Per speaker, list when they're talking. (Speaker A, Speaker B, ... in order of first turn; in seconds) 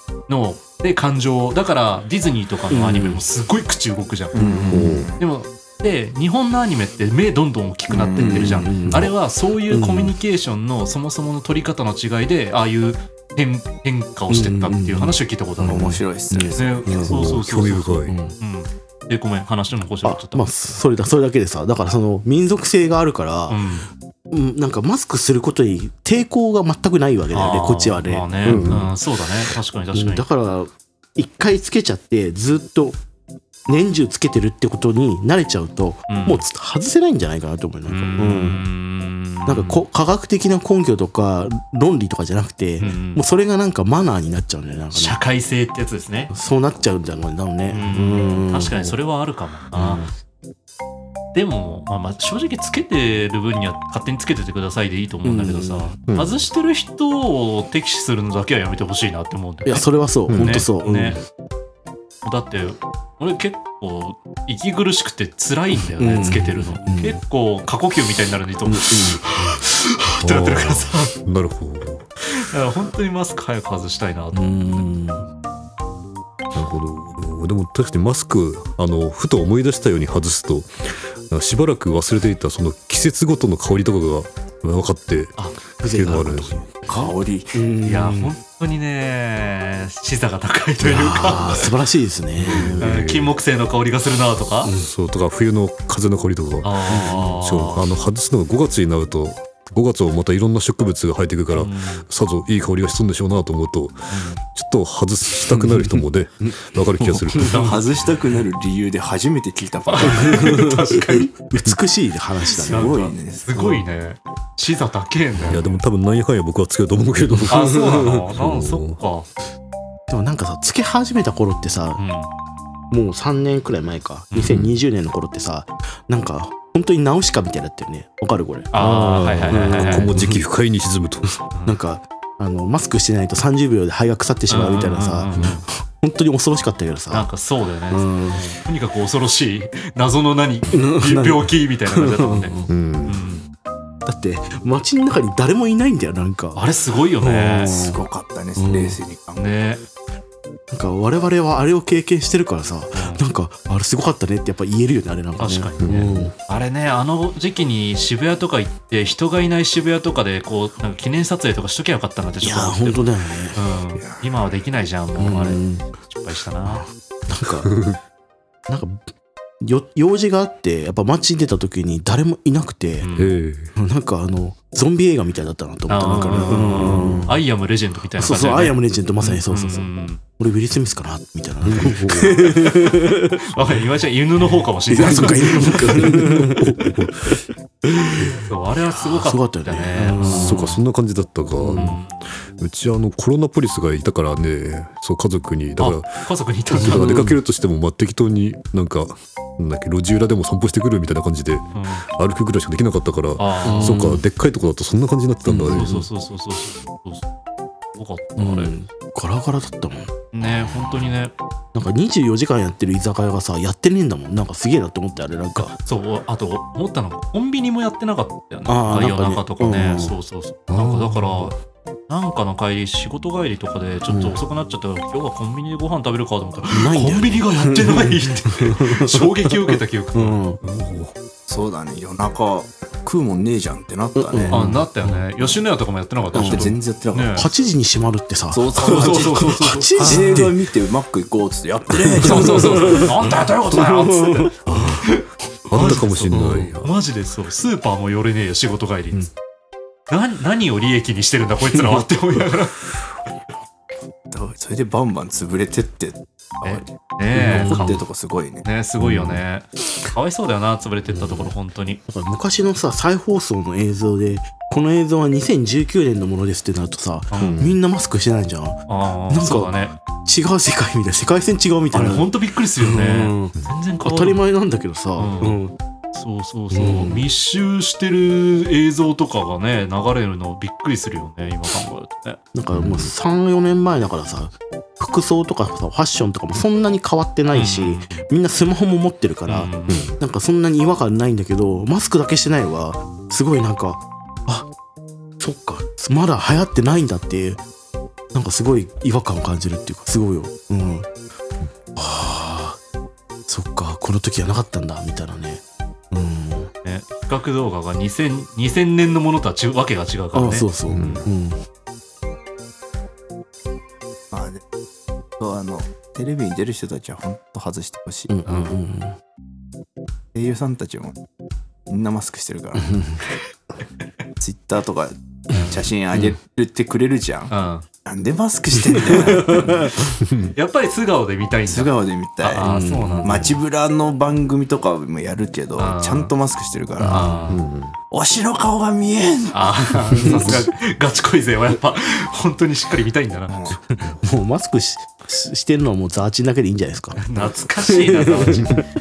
Speaker A: 0.3-4.5, 5.2-16.0, 16.6-20.5, 23.5-23.9, 27.3-30.3, 36.1-36.4, 37.9-39.9, 42.8-43.2, 44.9-46.3, 47.7-50.1, 51.3-61.2, 62.2-71.2, 72.3-75.2, 87.8-91.7, 92.8-94.7, 96.6-97.9, 101.5-102.1, 104.1-104.4, 107.4-107.8, 109.9-111.3, 112.5-115.8, 117.5-119.3, 122.0-122.3, 124.3-124.6, 128.7-130.2, 134.5-135.7, 137.1-143.5, 146.6-147.8, 149.4-149.8, 152.9-153.2, 155.4-166.9, 173.0-173.3, 175.9-180.2, 183.4-186.1, 188.4-190.8, 191.7-192.3, 195.8-197.3, 201.7-202.1, 203.4-204.2, 205.7-207.3, 207.9-208.7, 210.3-211.3, 215.7-221.6, 222.1-230.4, 234.5-237.5, 238.8-240.0, 242.2-249.3, 250.1-252.8, 256.6-257.9, 258.6-262.0, 267.3-267.6, 268.9-270.0, 271.9-274.4, 275.2-275.6, 276.1-282.4, 287.5-288.1, 289.5-290.1, 306.8-310.7, 318.5-318.8, 327.5-327.9, 329.0-329.8, 330.6-333.5, 335.8-336.3, 337.1-337.6, 339.5-343.6, 347.2-348.8
Speaker B: 2.7-3.2, 4.4-5.1, 8.2-9.1, 9.7-10.2, 14.3-17.2, 18.1-18.4, 20.0-23.6, 24.3-28.9, 29.9-33.0, 33.7-38.6, 39.5-45.2, 46.3-49.0, 49.7-50.1, 55.2-55.9, 59.7-61.2, 66.0-67.2, 68.7-69.2, 74.3-75.3, 85.8-88.3, 90.8-92.9, 94.6-94.9, 96.9-97.3, 105.5-106.6, 107.1-107.6, 110.0-113.0, 117.3-118.2, 120.1-122.0, 122.9-128.7, 129.5-130.4, 131.2-137.3, 137.9-138.5, 140.7-142.7, 144.1-146.7, 147.2-148.0, 148.6-149.0, 150.7-156.3, 162.4-163.6, 165.2-165.8, 166.7-167.7, 168.7-169.0, 169.6-173.1, 173.8-177.4, 178.2-183.4, 184.9-186.9, 187.8-188.4, 188.9-190.8, 191.6-192.0, 196.8-197.4, 203.7-204.2, 205.4-206.1, 208.4-210.7, 211.7-215.8, 218.7-220.2, 224.1-224.4, 226.7-230.6, 234.2-235.1, 236.3-236.8, 237.3-240.6, 241.9-244.9, 245.7-246.8, 257.3-258.0, 259.0-259.4, 261.2-261.5, 262.1-269.7, 270.2-275.8, 276.7-277.3, 282.5-294.7, 295.4-297.6, 298.3-301.1, 302.0-302.8, 303.5-306.7, 310.3-311.6, 318.3-319.2, 322.8-323.2, 325.5-326.4, 328.9-330.1, 332.6-333.6, 337.0-337.5, 340.2-340.6, 344.0-348.9
Speaker C: 4.3-5.2, 7.9-8.8, 15.7-17.1, 86.9-87.6, 107.4-110.6, 112.5-113.8, 147.7-149.5, 164.0-164.3, 231.5-234.7, 236.3-237.4, 238.5-243.0, 254.3-258.7, 314.3-314.6, 315.4-318.3, 320.3-321.2, 321.9-322.9, 324.4-327.5, 328.1-329.8, 331.7-332.6, 333.2-337.4, 338.1-340.3, 343.5-343.8
Speaker D: 4.7-5.1, 17.1-18.1, 28.4-28.9, 56.1-56.4, 60.3-60.7, 70.2-72.1, 76.5-86.7, 92.4-93.4, 94.7-107.7, 115.5-119.0, 124.4-124.8, 128.8-131.3, 142.7-143.2, 155.8-156.3, 167.7-168.0, 173.1-173.7, 176.8-177.2, 181.7-182.7, 185.0-187.4, 190.2-206.0, 220.7-221.5, 230.6-231.2, 240.0-240.4, 244.7-245.1, 245.7-246.9, 267.4-267.8, 282.7-283.1, 289.9-290.2, 310.9-311.3, 330.2-330.5, 337.5-337.9